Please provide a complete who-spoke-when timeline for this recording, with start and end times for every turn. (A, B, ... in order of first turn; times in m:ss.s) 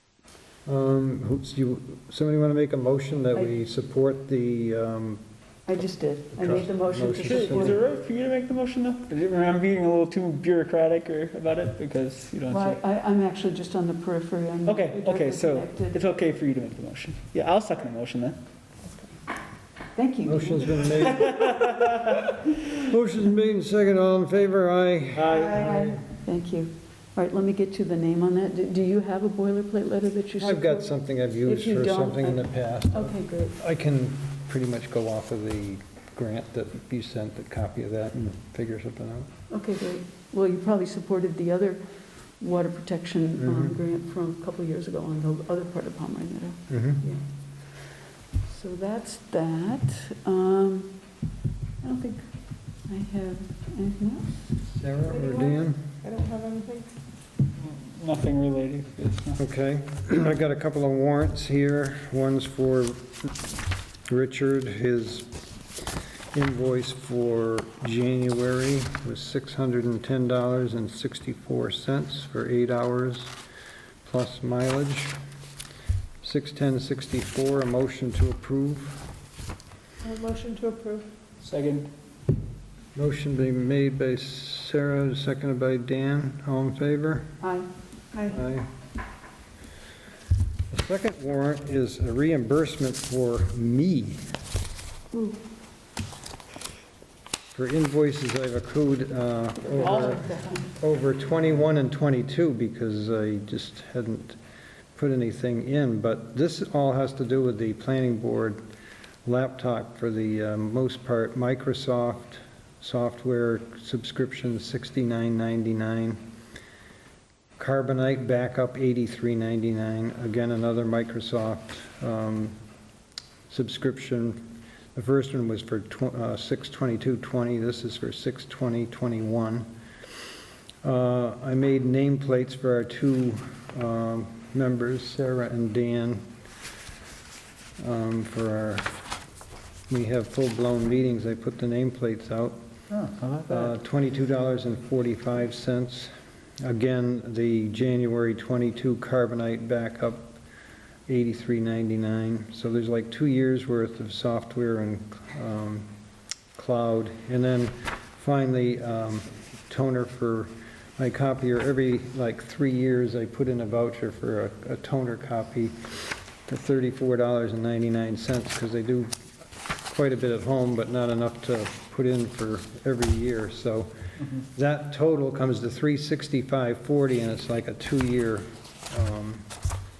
0:00.6-0:05.2 A
0:05.7-0:07.8 B
0:06.4-0:07.8 A
0:07.2-0:12.8 C
0:12.5-0:16.0 B
0:14.6-0:18.4 C
0:20.0-0:20.9 B
0:20.2-0:21.8 A
0:21.1-0:22.2 C
0:22.7-0:25.9 A
0:25.1-0:25.9 C
0:25.3-0:30.9 B
0:30.4-0:39.3 A
0:31.4-0:33.6 B
0:39.5-0:41.8 B
0:42.4-0:47.2 B
0:43.4-0:43.8 A
0:46.7-0:47.0 A
0:48.4-0:51.0 B
0:51.8-0:54.6 B
0:54.7-0:55.8 A
0:55.2-0:55.5 D
0:56.0-0:56.9 D
0:57.6-0:59.4 C
0:59.4-1:03.3 A
1:04.1-1:05.3 A
1:06.3-1:13.3 A
1:14.0-1:15.1 A
1:16.2-1:19.0 A
1:20.0-1:21.0 D
1:21.4-1:21.9 C
1:22.9-1:27.3 A
1:27.4-1:27.7 B
1:28.3-1:28.7 A
1:30.7-1:34.2 A
1:35.1-1:35.4 B
1:37.5-1:44.4 A
1:39.8-1:40.6 B
1:44.9-1:48.6 A
1:49.2-1:56.2 A
1:57.6-2:02.5 A
2:03.5-2:04.4 A
2:04.9-2:09.7 A
2:10.8-2:16.2 A
2:17.8-2:18.9 A
2:19.9-2:22.6 A
2:22.9-2:23.7 C
2:23.5-2:30.4 A
2:31.1-2:35.9 A
2:36.5-2:49.1 A
2:49.9-2:53.9 A
2:54.4-2:59.5 A